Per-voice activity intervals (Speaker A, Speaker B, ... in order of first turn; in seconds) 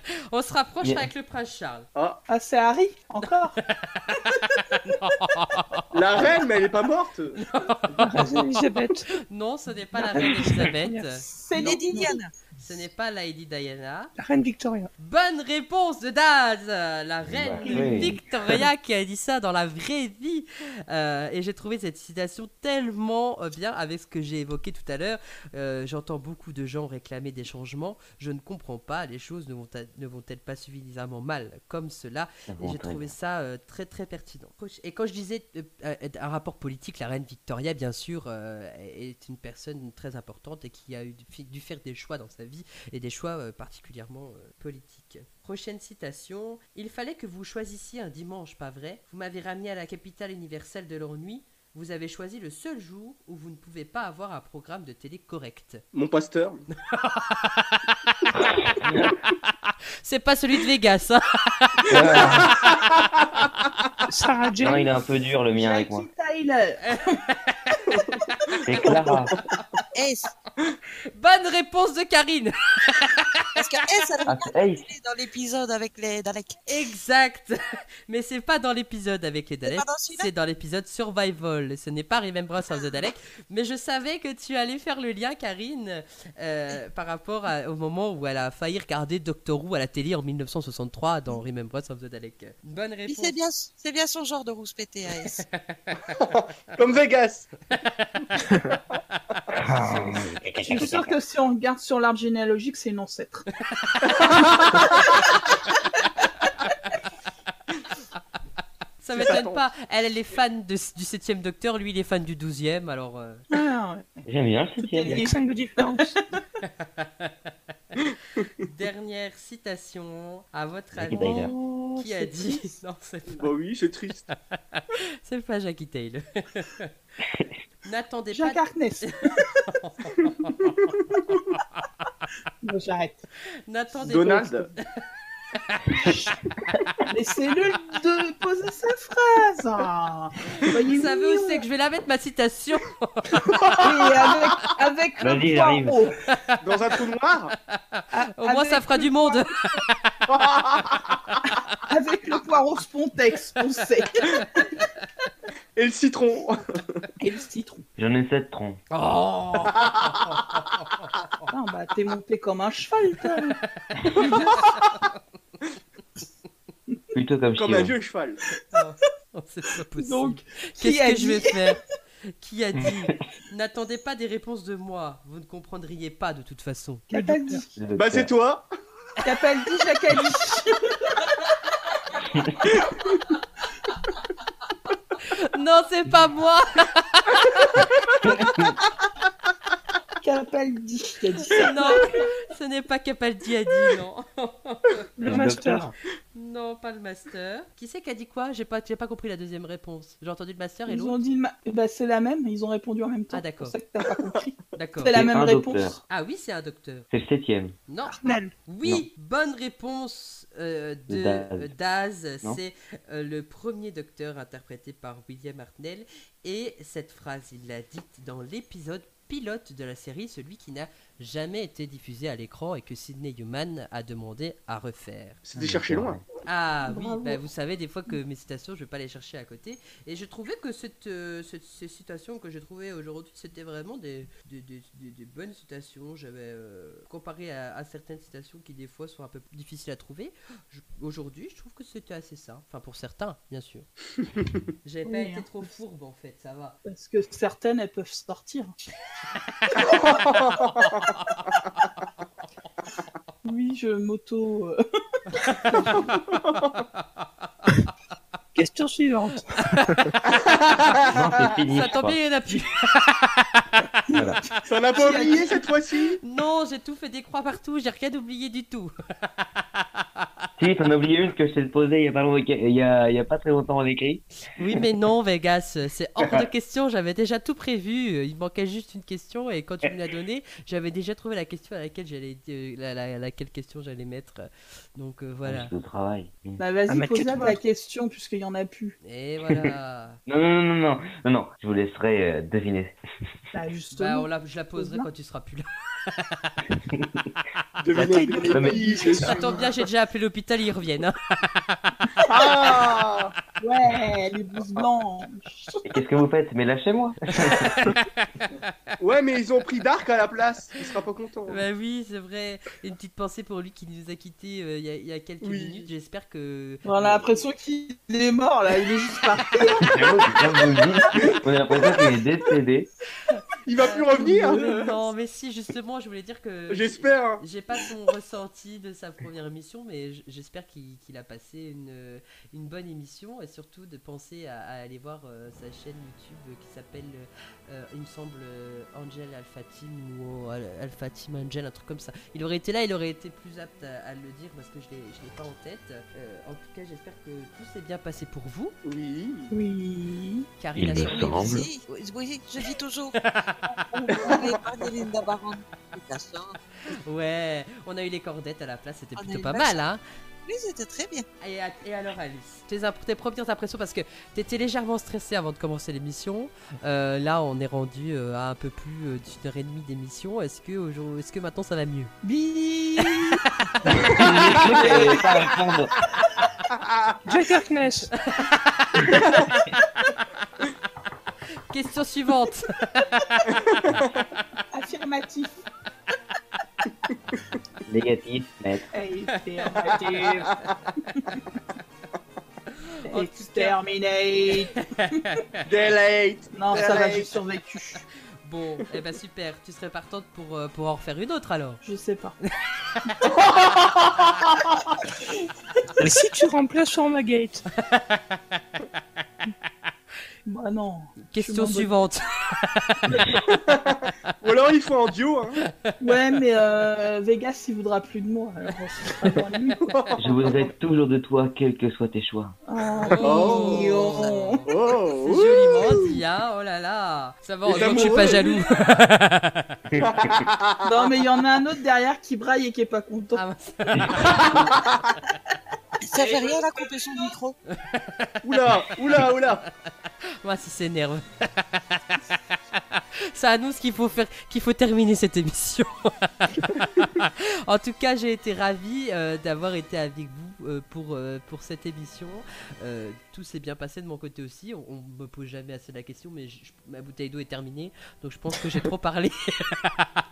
Speaker A: 0.3-1.9, 3.6-6.3, 7.3-8.4, 9.3-11.2, 12.6-14.1, 15.0-55.8, 56.9-58.3, 60.0-62.5, 67.3-67.8, 71.2-73.4, 76.7-93.4, 95.4-96.0, 97.7-98.5, 103.7-104.3, 109.0-113.4, 116.6-118.0, 118.6-123.5, 124.5-126.9, 127.8-131.8, 133.7-134.8, 135.6-136.1, 140.6-143.8, 146.3-146.6, 147.7-150.1, 151.3-151.5, 158.9-161.5, 164.1-165.2, 168.7-171.8, 172.4-177.1, 185.2-187.9, 191.5-195.6, 196.3-201.2, 203.3-203.8, 204.7-205.2, 206.1-207.1, 207.9-225.4, 226.4-243.9, 244.8-246.8, 250.8-251.4, 255.4-256.1, 257.0-257.3, 259.6-260.1, 261.6-263.7, 266.2-270.3, 274.5-285.7, 289.0-290.2, 293.9-296.5, 299.2-301.9, 308.1-308.6, 311.5-317.2, 323.3-348.7, 350.6-351.7, 353.2-353.7, 356.9-360.0, 361.4-372.1, 373.1-375.2, 378.2-380.2, 381.7-383.6, 389.6-390.0, 392.8-393.8, 394.5-395.6, 398.4-401.8, 407.9-408.4, 411.2-413.2, 423.1-429.8, 433.4-434.7, 437.7-438.9, 440.4-442.0, 442.9-460.1
Speaker B: 0.8-1.1, 17.3-18.2, 32.5-33.1, 58.8-59.1, 61.9-62.5, 64.6-66.1, 68.6-69.3, 74.3-74.8, 99.6-101.2, 114.3-115.3, 120.9-121.5, 145.2-146.1, 158.0-158.8, 167.1-167.9, 172.8-173.2, 177.8-178.3, 188.2-188.8, 195.3-195.9, 205.1-206.0, 207.1-207.8, 211.1-211.7, 225.6-226.2, 261.1-262.2, 264.1-264.4, 270.6-274.2, 285.4-287.6, 290.3-292.9, 296.9-297.2, 297.9-299.1, 305.9-307.8, 319.8-322.9, 350.7-351.6, 374.0-375.9, 387.9-388.9, 420.2-422.6, 429.9-430.4, 433.9-434.4
Speaker C: 1.9-2.2, 5.9-7.4, 55.9-56.6, 62.4-63.0, 67.9-68.2, 68.7-69.4, 96.1-97.5, 104.0-105.4, 109.1-109.6, 123.3-124.3, 134.0-134.7, 143.5-144.1, 146.6-147.5, 150.3-151.2, 155.8-157.0, 167.6-168.4, 177.9-178.7, 225.4-226.2, 249.8-251.2, 256.0-256.8, 260.3-261.3, 264.6-266.2, 297.8-299.6, 302.3-303.3, 309.0-311.6, 315.4-315.9, 323.6-325.0, 326.7-327.4, 348.9-349.5, 354.1-354.4, 374.4-375.1, 376.7-377.0, 383.5-384.1, 395.6-397.4, 403.2-404.9, 413.2-415.6, 419.8-420.5, 423.2-425.8, 427.6-428.6, 430.0-431.1, 434.5-435.0, 438.4-439.6
Speaker D: 2.3-3.6, 11.3-12.2, 65.5-67.2, 100.6-103.4, 113.5-114.2, 114.8-115.3, 121.1-122.7, 128.3-129.5, 132.6-133.2, 137.1-141.6, 143.8-146.1, 148.1-149.4, 151.8-154.6, 157.2-157.8, 161.5-163.6, 164.1-164.7, 170.0-171.8, 177.1-177.7, 179.2-181.2, 190.2-192.1, 200.9-206.0, 226.9-227.4, 245.1-245.5, 246.8-248.7, 253.4-254.8, 264.9-265.6, 286.6-288.9, 293.5-295.1, 303.6-305.8, 316.8-320.0, 324.4-324.6, 372.2-373.4, 374.1-375.4, 384.7-385.5, 388.9-390.5, 393.1-394.9, 396.5-398.0, 401.8-402.4, 410.4-411.9, 416.0-419.8, 422.7-424.6, 430.9-433.4, 436.1-436.5
Speaker E: 8.0-9.2, 9.9-11.2, 14.2-14.9, 17.6-18.1, 64.1-64.9, 115.1-116.1, 177.1-177.7, 195.2-195.9, 208.1-208.5, 258.6-259.7, 287.0-287.5, 297.9-299.6, 349.5-350.5, 377.2-378.1, 406.0-407.6
Speaker F: 11.5-12.3, 69.9-70.3, 73.5-76.5, 79.7-80.3, 93.1-95.4, 350.9-353.2, 354.1-356.6, 359.1-359.9, 360.4-361.3, 436.1-437.6